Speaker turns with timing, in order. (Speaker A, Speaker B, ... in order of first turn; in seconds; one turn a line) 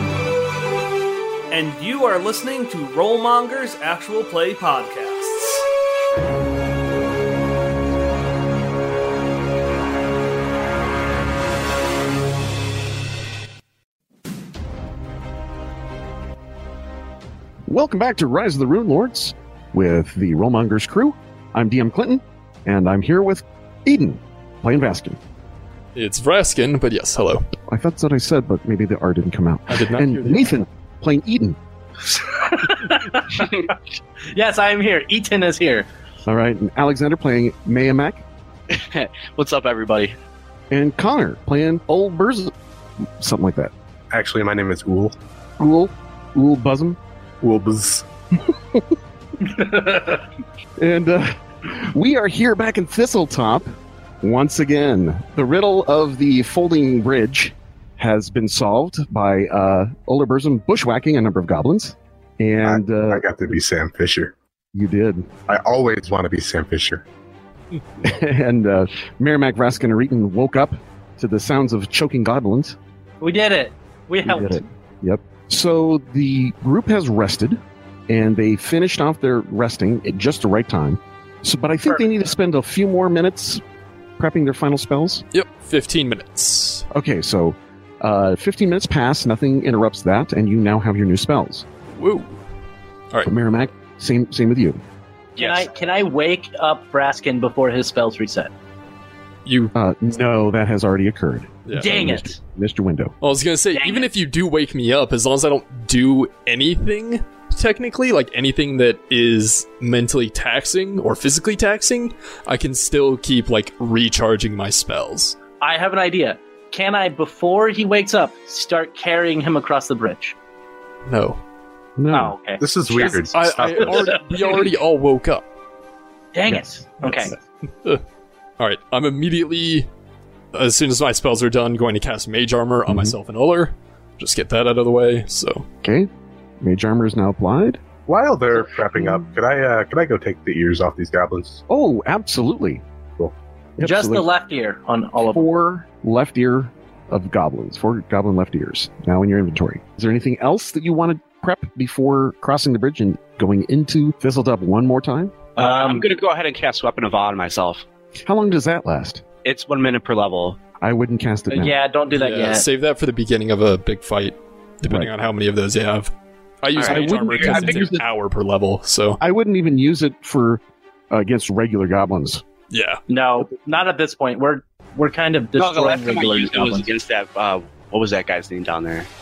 Speaker A: 1.5-5.6
Speaker B: 17.7-25.2
Speaker C: 25.9-27.5
Speaker B: 27.7-31.6
Speaker C: 29.7-30.5
Speaker D: 32.1-35.9
Speaker B: 36.3-38.2
Speaker E: 38.7-40.1
Speaker B: 40.7-42.5
Speaker B: 43.0-43.7
Speaker F: 44.1-45.1
Speaker B: 45.6-47.0
Speaker F: 47.4-48.1
Speaker D: 49.4-50.2
Speaker B: 50.8-63.3
Speaker F: 62.6-64.3
Speaker B: 64.7-65.3
Speaker F: 65.5-67.0
Speaker B: 68.0-72.8
Speaker D: 73.2-74.6
Speaker B: 74.2-83.6
Speaker B: 84.2-85.2
Speaker C: 85.3-86.9
Speaker B: 86.9-91.7
Speaker C: 91.9-92.4
Speaker B: 93.2-94.8
Speaker E: 95.4-96.0
Speaker D: 95.4-98.5
Speaker C: 99.5-99.7
Speaker B: 99.7-103.1
Speaker C: 101.7-102.0
Speaker D: 101.7-102.4
Speaker C: 103.2-115.4
Speaker D: 103.7-104.1
Speaker D: 115.6-120.3
Speaker C: 121.1-121.4
Speaker B: 122.0-122.3
Speaker D: 122.1-123.3
Speaker F: 122.6-124.2
Speaker C: 123.0-125.5
Speaker D: 123.8-124.6
Speaker D: 126.3-127.4
Speaker C: 128.6-129.9
Speaker C: 130.5-135.7
Speaker B: 132.9-133.2
Speaker B: 135.8-136.1
Speaker B: 136.6-137.8
Speaker F: 138.1-141.6
Speaker B: 138.9-139.3
Speaker B: 141.7-142.8
Speaker B: 143.8-144.3
Speaker D: 143.8-145.5
Speaker B: 145.2-155.4
Speaker E: 155.6-157.8
Speaker D: 155.6-156.1
Speaker B: 158.2-159.2
Speaker E: 159.4-160.6
Speaker B: 160.8-161.8
Speaker D: 161.5-162.7
Speaker C: 162.1-166.1
Speaker B: 164.8-165.1
Speaker C: 166.6-169.2
Speaker E: 166.8-168.0
Speaker B: 166.9-168.0
Speaker B: 169.2-172.4
Speaker C: 172.7-173.0
Speaker D: 173.1-176.9
Speaker E: 175.6-179.1